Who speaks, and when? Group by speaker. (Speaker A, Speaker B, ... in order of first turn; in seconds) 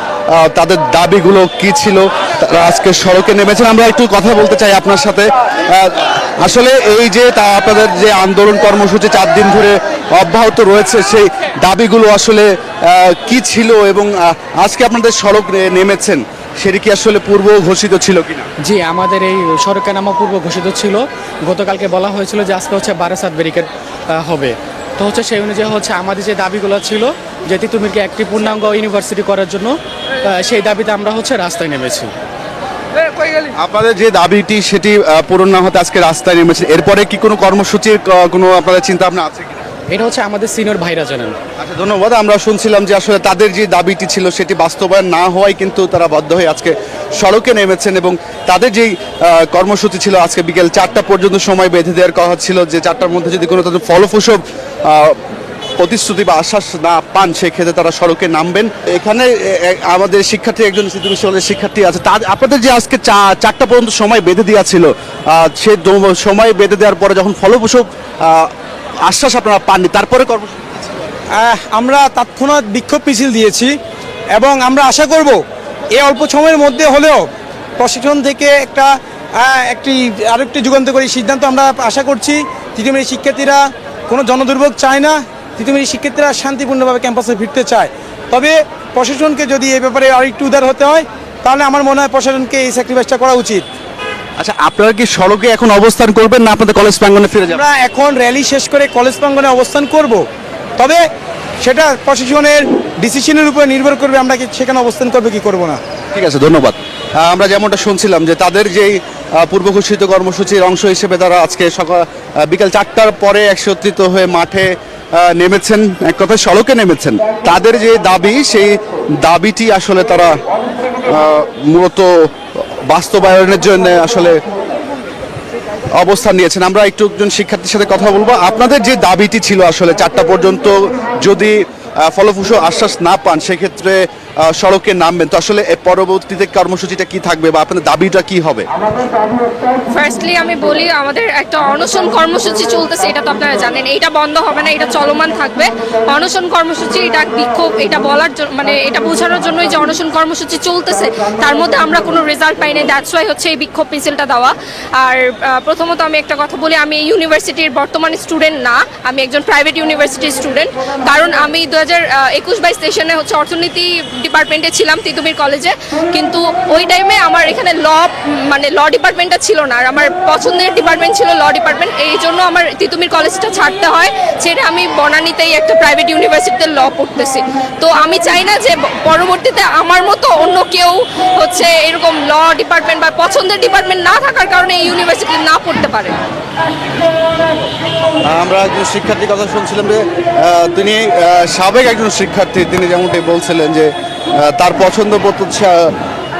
Speaker A: 0.3-18.5, 33.6-39.6, 41.6-48.9, 49.4-55.2, 55.8-68.5, 69.0-70.5, 94.4-97.6, 106.1-120.3, 121.1-122.1, 122.9-124.4, 125.9-138.7, 188.2-195.8
Speaker B: 18.6-29.8, 30.4-32.1, 39.9-41.4
Speaker C: 71.3-73.8, 74.3-93.6, 97.5-100.2, 100.8-101.0, 101.6-105.8
Speaker D: 139.9-186.2